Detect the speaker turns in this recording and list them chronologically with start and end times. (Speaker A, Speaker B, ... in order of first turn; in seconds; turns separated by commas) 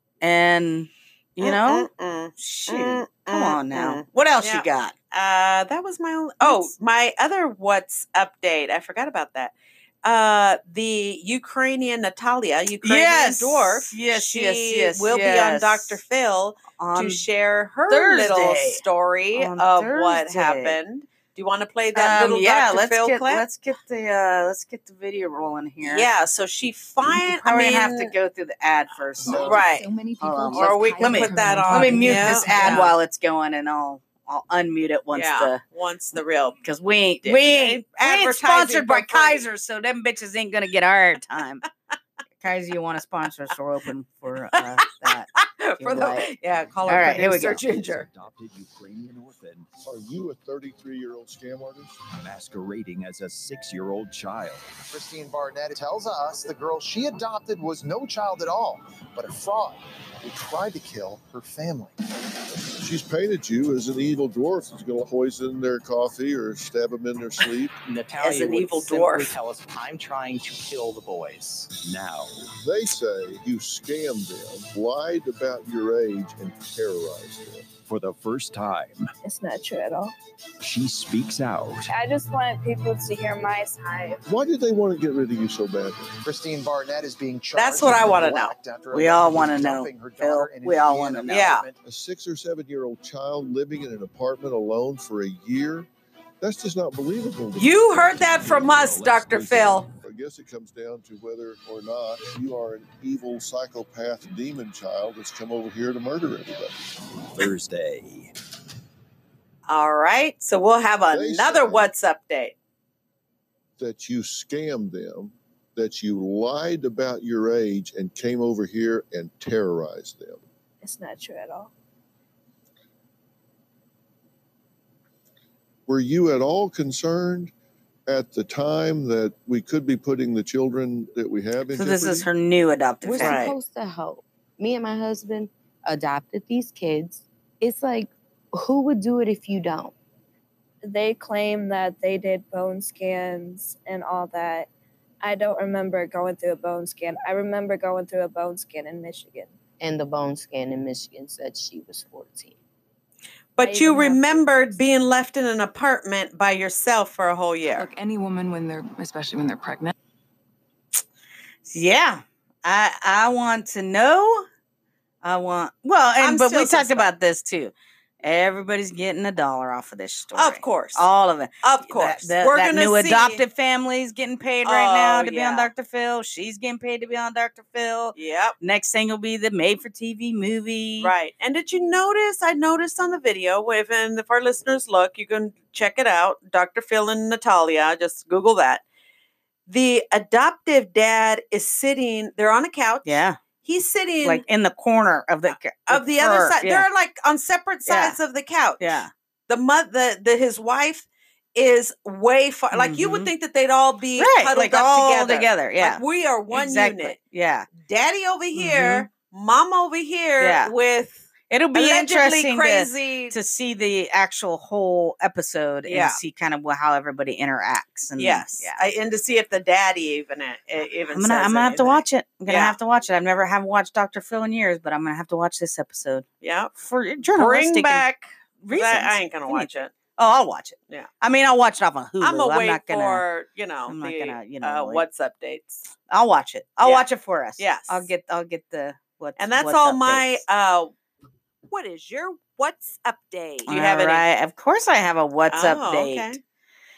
Speaker A: 0.2-4.9, Speaker B: 1.4-23.5, Speaker A: 6.4-6.7, Speaker A: 12.8-16.0, Speaker A: 16.8-17.2, Speaker A: 17.9-18.8, Speaker A: 19.4-20.8, Speaker A: 21.9-26.1, Speaker B: 25.8-28.1, Speaker A: 27.4-29.7, Speaker C: 29.2-32.9, Speaker B: 29.3-29.9, Speaker A: 30.2-35.6, Speaker B: 30.5-32.9, Speaker B: 35.1-36.6, Speaker A: 36.6-41.6, Speaker B: 37.2-39.5, Speaker A: 42.4-46.2, Speaker B: 45.4-48.1, Speaker A: 46.9-47.6, Speaker D: 46.9-49.7, Speaker E: 49.9-52.0, Speaker D: 52.1-54.8, Speaker F: 54.9-62.0, Speaker E: 62.7-67.8, Speaker G: 67.8-71.7, Speaker B: 68.2-69.3, Speaker D: 71.8-72.4, Speaker E: 72.5-77.7, Speaker D: 77.9-79.1, Speaker H: 79.2-80.1, Speaker D: 80.6-81.9, Speaker H: 81.9-84.2, Speaker E: 84.3-86.2, Speaker F: 86.2-91.8, Speaker B: 87.5-88.5, Speaker A: 88.9-91.5, Speaker B: 91.3-91.7, Speaker E: 91.8-95.9, Speaker E: 96.4-98.6, Speaker B: 97.6-99.9, Speaker D: 98.3-99.8, Speaker E: 100.0-106.8, Speaker D: 107.3-108.3, Speaker B: 109.7-112.5, Speaker E: 111.1-111.9, Speaker E: 113.8-120.4, Speaker H: 120.8-121.7, Speaker E: 125.9-127.5, Speaker E: 128.1-132.3, Speaker A: 131.8-133.5, Speaker I: 133.0-139.9, Speaker B: 133.2-133.5, Speaker H: 140.8-144.7, Speaker H: 145.2-149.5, Speaker I: 149.8-152.6, Speaker B: 153.6-157.9, Speaker H: 153.6-154.8, Speaker C: 157.8-159.9, Speaker A: 161.7-164.5, Speaker A: 165.2-167.7, Speaker B: 166.2-167.1, Speaker A: 168.2-181.1, Speaker B: 170.3-171.1, Speaker B: 171.6-173.4, Speaker B: 174.7-175.7, Speaker B: 178.2-178.6, Speaker B: 181.0-188.8, Speaker B: 189.7-194.4, Speaker A: 193.1-193.4, Speaker A: 194.2-196.8, Speaker B: 195.5-207.2, Speaker A: 197.9-198.2, Speaker A: 198.8-199.1, Speaker A: 202.7-203.3, Speaker A: 204.2-207.7, Speaker B: 207.7-213.4, Speaker A: 208.6-209.1, Speaker A: 210.4-210.7, Speaker A: 211.5-218.8, Speaker B: 215.9-216.2, Speaker B: 218.2-222.8, Speaker A: 221.1-226.3, Speaker B: 226.4-226.7, Speaker A: 226.8-228.1, Speaker B: 227.2-229.9, Speaker A: 228.6-233.2, Speaker B: 232.2-235.9, Speaker A: 233.9-235.0, Speaker A: 236.1-240.4, Speaker B: 237.6-238.1, Speaker B: 239.4-240.9, Speaker B: 241.7-244.2, Speaker A: 243.7-246.4, Speaker B: 245.5-246.4